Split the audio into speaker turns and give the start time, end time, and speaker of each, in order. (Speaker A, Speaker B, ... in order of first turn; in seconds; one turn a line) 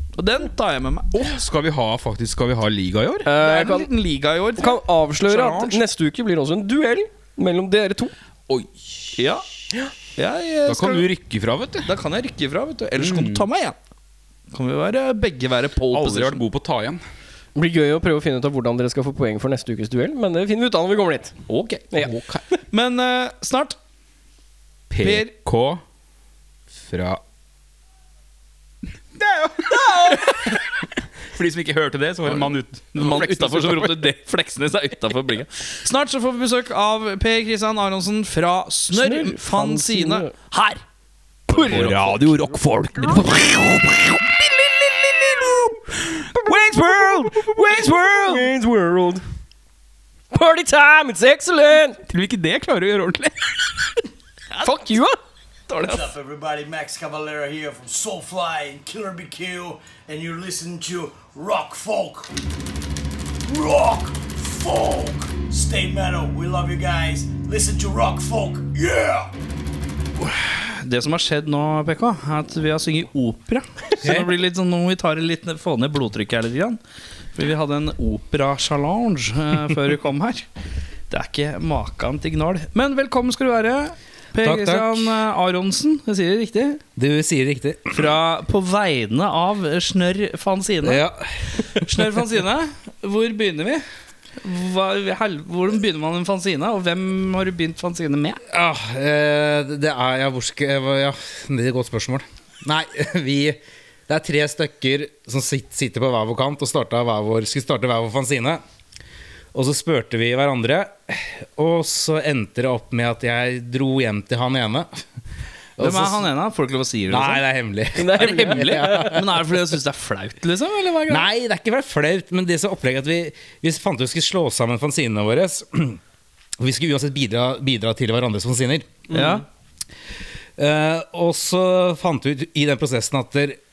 Speaker A: 0.1-1.2
Speaker B: 1.1-3.3
Speaker C: 3.2-3.9
Speaker A: 3.3-5.8
Speaker C: 4.6-8.1
Speaker A: 9.2-9.4
Speaker A: 10.2-11.1
Speaker B: 10.7-11.9
Speaker A: 11.8-13.8
Speaker B: 13.0-13.4
Speaker A: 14.5-16.4
Speaker B: 15.9-17.0
Speaker C: 17.6-21.4
Speaker B: 21.5-22.4
Speaker A: 22.7-23.8
Speaker B: 24.9-25.8
Speaker A: 25.0-25.3
Speaker B: 26.7-27.2
Speaker B: 29.1-30.6
Speaker B: 31.3-34.1
Speaker A: 32.4-40.8
Speaker C: 38.9-40.3
Speaker A: 41.5-43.4
Speaker B: 41.5-48.4
Speaker C: 47.1-49.2
Speaker A: 47.5-48.1
Speaker C: 50.3-52.0
Speaker B: 52.1-53.9
Speaker A: 54.5-54.8
Speaker C: 54.6-55.2
Speaker A: 55.7-56.1
Speaker D: 55.9-62.3
Speaker D: 63.4-69.3
Speaker A: 70.2-76.8
Speaker E: 74.0-74.3
Speaker A: 77.3-80.5
Speaker A: 81.1-86.8
Speaker E: 84.4-85.1
Speaker E: 87.0-88.1
Speaker A: 87.9-91.0
Speaker E: 90.8-91.9
Speaker A: 91.7-93.8
Speaker A: 94.4-98.4
Speaker E: 98.5-108.6
Speaker E: 109.5-115.0
Speaker E: 115.8-116.2
Speaker A: 115.8-117.4
Speaker E: 117.1-119.2
Speaker C: 117.9-119.2
Speaker A: 118.2-121.3
Speaker E: 121.1-126.0
Speaker E: 126.6-129.1
Speaker C: 129.1-129.4
Speaker A: 129.1-129.4
Speaker E: 130.6-133.6